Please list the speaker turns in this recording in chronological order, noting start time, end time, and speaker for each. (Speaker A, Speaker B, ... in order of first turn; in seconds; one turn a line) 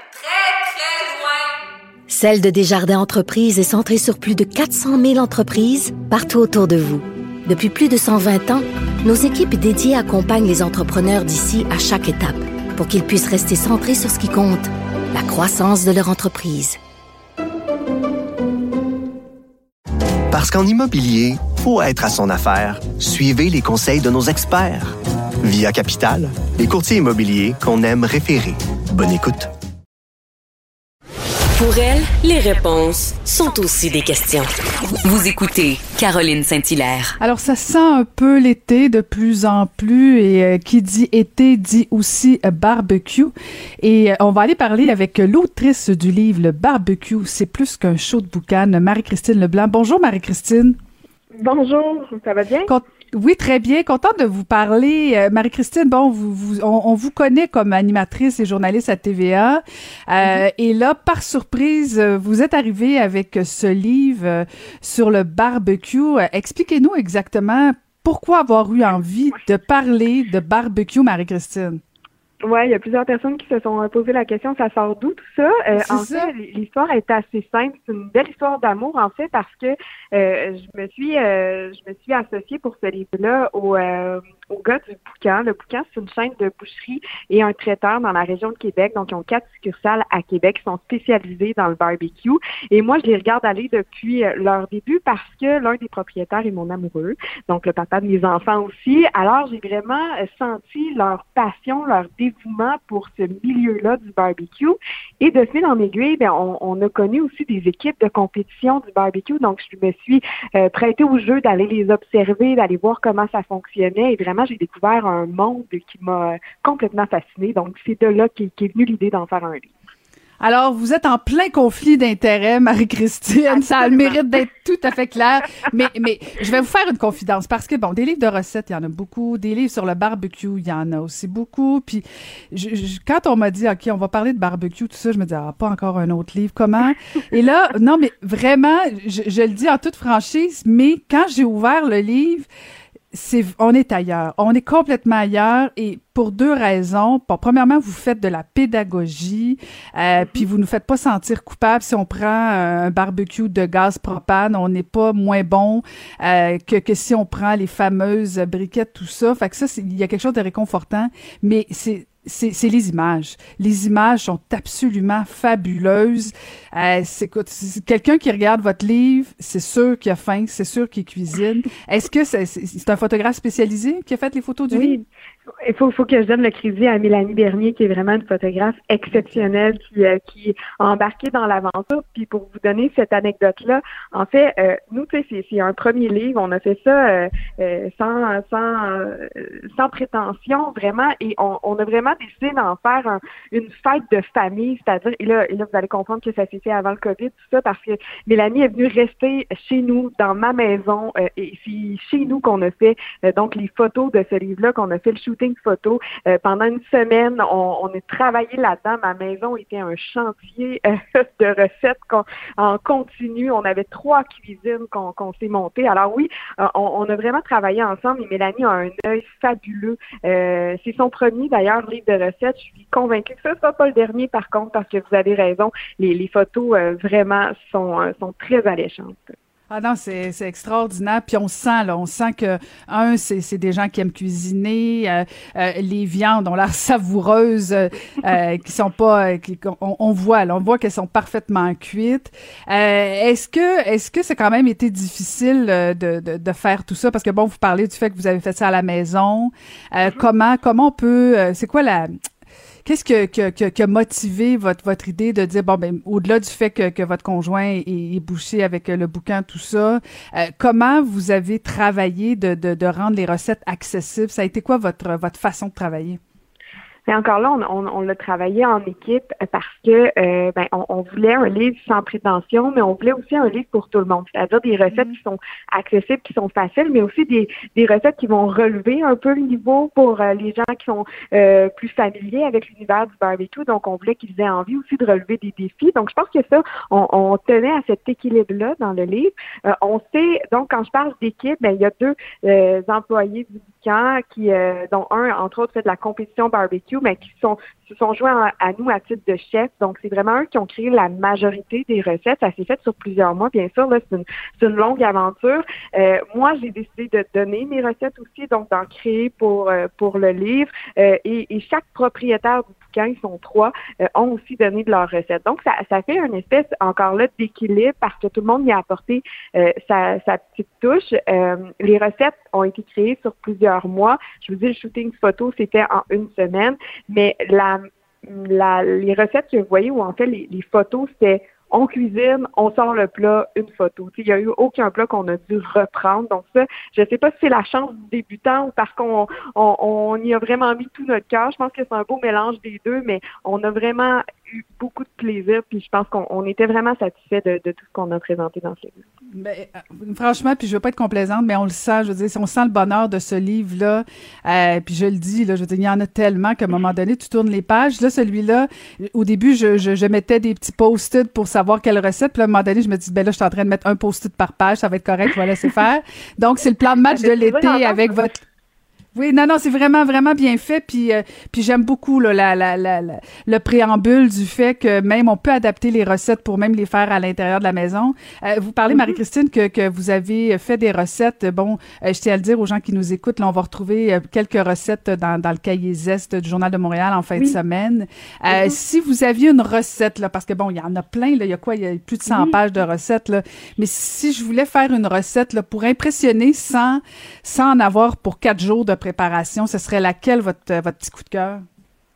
Speaker A: 0.3-1.2
Speaker B: 2.1-16.8
Speaker C: 20.3-29.5
Speaker A: 31.6-34.5
Speaker A: 35.0-37.2
Speaker D: 37.2-50.8
Speaker E: 51.4-52.7
Speaker D: 52.7-71.8
Speaker E: 72.5-119.7
Speaker D: 75.7-76.3
Speaker D: 120.4-142.5
Speaker E: 123.6-124.1
Speaker D: 143.1-175.0
Speaker E: 174.7-175.1
Speaker E: 175.6-229.3
Speaker D: 179.2-179.4
Speaker D: 229.7-252.2
Speaker D: 252.8-266.2
Speaker E: 267.1-349.0
Speaker D: 349.3-368.4
Speaker E: 367.1-368.2
Speaker D: 369.1-401.6
Speaker E: 378.9-379.2
Speaker E: 388.5-388.8
Speaker E: 392.3-392.6